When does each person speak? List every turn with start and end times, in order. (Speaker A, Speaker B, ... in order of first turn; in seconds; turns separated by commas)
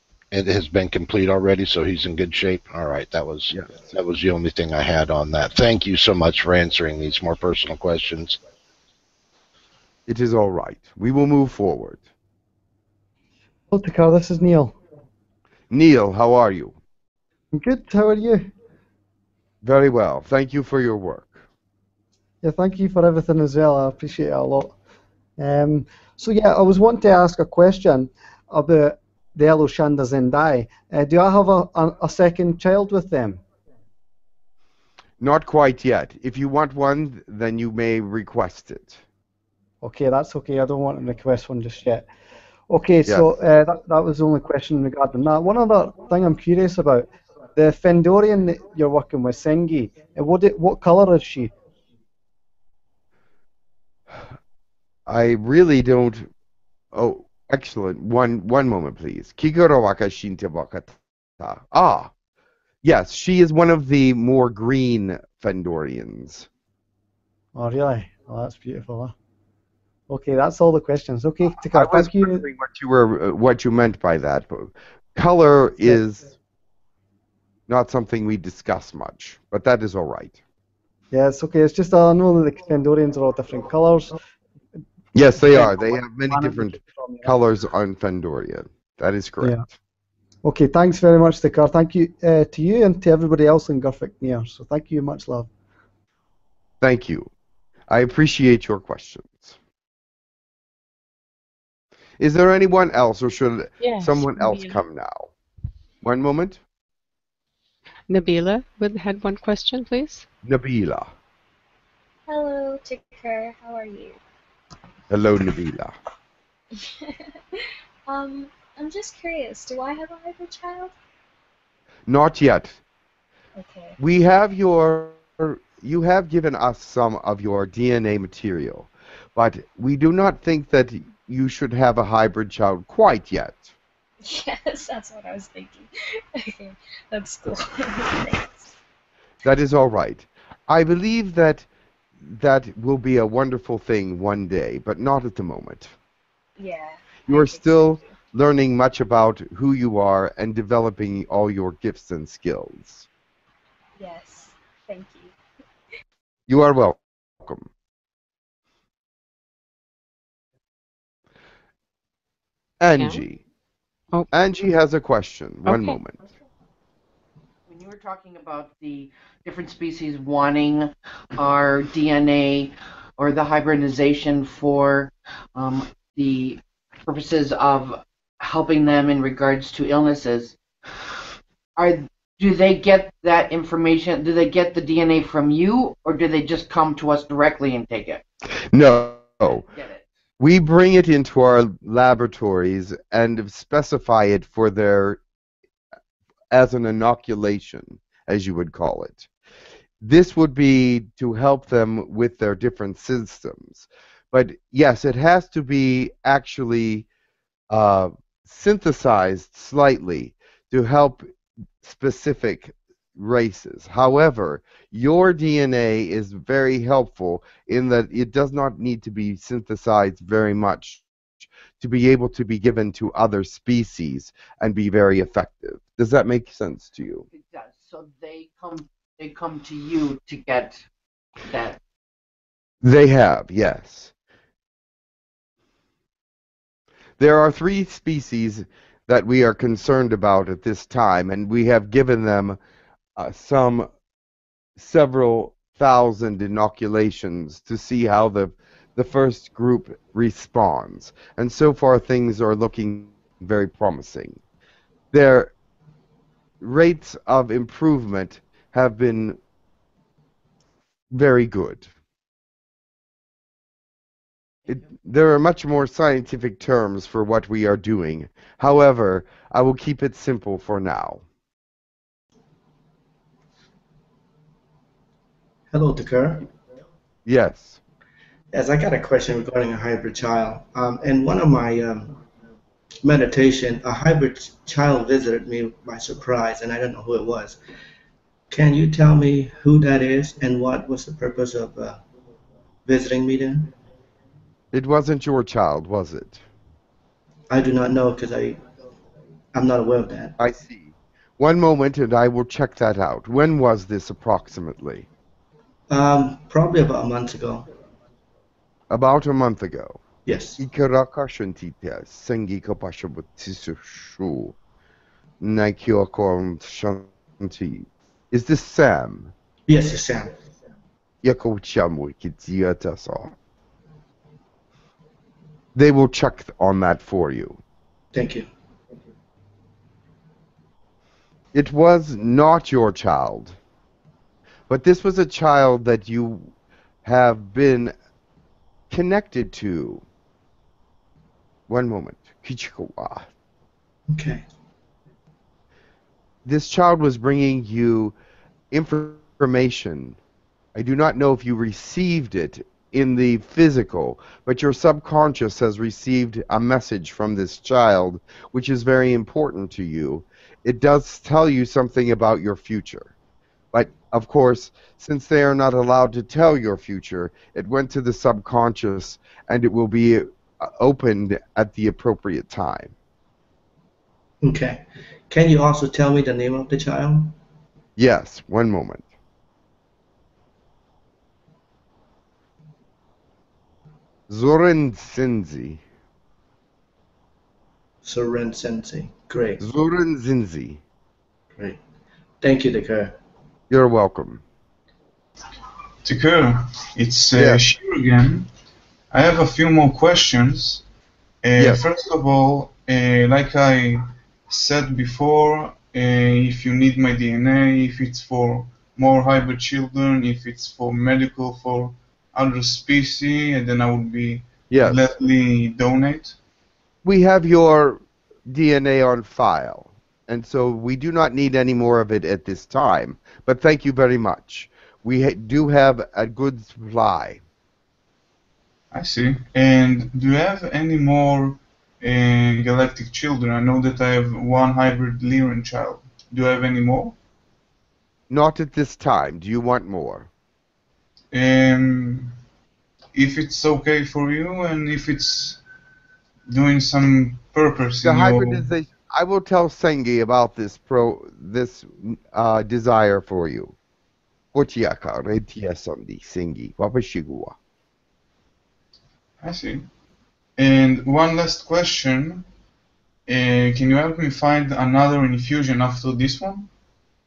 Speaker A: 0.3-8.4, Speaker B: 10.1-12.0, Speaker C: 13.7-14.8, Speaker B: 15.7-16.8, Speaker C: 17.5-18.5, Speaker B: 19.6-21.4, Speaker C: 22.4-24.8, Speaker C: 25.4-33.4, Speaker B: 35.2-39.0, Speaker C: 39.8-42.1, Speaker C: 42.7-51.5, Speaker B: 55.1-56.3, Speaker B: 56.9-62.1, Speaker B: 62.8-66.5, Speaker C: 67.5-69.1, Speaker C: 70.1-72.4, Speaker B: 71.5-76.3, Speaker B: 77.7-80.4, Speaker C: 81.1-84.2, Speaker B: 85.1-89.6, Speaker C: 85.2-87.3, Speaker C: 90.4-95.5, Speaker B: 96.8-97.3, Speaker B: 97.9-99.6, Speaker B: 102.2-105.3, Speaker D: 103.8-104.8, Speaker B: 106.0-106.6, Speaker D: 108.1-110.3, Speaker B: 110.4-111.1, Speaker E: 112.3-114.2, Speaker B: 115.1-116.0, Speaker E: 118.1-120.9, Speaker B: 122.1-122.8, Speaker E: 123.6-124.0, Speaker B: 124.0-133.7, Speaker E: 134.2-138.7, Speaker B: 139.4-141.7, Speaker B: 142.2-145.9, Speaker E: 146.6-148.2, Speaker B: 147.3-153.1, Speaker E: 154.0-155.3, Speaker B: 156.5-157.7, Speaker B: 162.8-163.4, Speaker D: 163.0-163.2, Speaker B: 164.3-166.3, Speaker D: 165.7-166.0, Speaker F: 167.7-180.6, Speaker F: 181.8-188.2, Speaker B: 188.7-189.7, Speaker F: 189.7-190.1, Speaker B: 190.4-195.2, Speaker B: 196.5-199.3, Speaker B: 200.0-207.1, Speaker B: 207.7-211.3, Speaker B: 211.8-221.0, Speaker B: 221.8-227.3, Speaker F: 227.3-230.8, Speaker F: 231.4-231.8, Speaker B: 232.8-234.1, Speaker B: 237.2-242.6, Speaker B: 243.2-243.9, Speaker B: 244.8-254.4, Speaker B: 255.1-255.5, Speaker B: 256.6-259.4, Speaker B: 261.1-261.9, Speaker B: 264.7-271.2, Speaker G: 275.7-276.5, Speaker B: 277.3-277.8, Speaker G: 278.5-282.2, Speaker G: 283.0-287.6, Speaker G: 288.5-292.0, Speaker G: 292.9-293.7, Speaker B: 294.7-296.4, Speaker G: 297.5-298.6, Speaker G: 299.5-300.4, Speaker B: 300.4-305.1, Speaker G: 305.9-307.7, Speaker B: 308.9-310.0, Speaker G: 310.3-310.6, Speaker B: 310.6-314.6, Speaker B: 315.4-319.3, Speaker G: 319.7-320.4, Speaker B: 321.2-323.3, Speaker B: 325.8-327.6, Speaker G: 328.1-328.5, Speaker B: 331.5-333.6, Speaker B: 334.7-336.5, Speaker B: 337.1-337.9, Speaker B: 338.9-340.0, Speaker B: 341.7-343.3, Speaker G: 344.1-344.4, Speaker B: 346.4-348.2, Speaker B: 348.7-350.2, Speaker B: 350.8-363.1, Speaker B: 363.7-372.9, Speaker G: 374.4-377.4, Speaker B: 378.0-379.1, Speaker B: 384.3-385.8, Speaker G: 388.0-389.6, Speaker B: 389.6-390.8, Speaker G: 392.4-393.2, Speaker B: 393.7-394.4, Speaker H: 396.1-398.5, Speaker B: 397.4-397.6, Speaker H: 399.1-400.8, Speaker H: 401.4-416.4, Speaker B: 401.6-401.8, Speaker B: 414.7-415.1, Speaker B: 417.0-427.4, Speaker H: 428.9-437.2, Speaker B: 438.3-440.3, Speaker H: 441.3-442.3, Speaker H: 443.1-445.6, Speaker H: 446.5-448.7, Speaker B: 448.0-453.8, Speaker B: 454.5-457.6, Speaker H: 459.4-459.9, Speaker H: 460.6-462.4, Speaker H: 463.3-466.7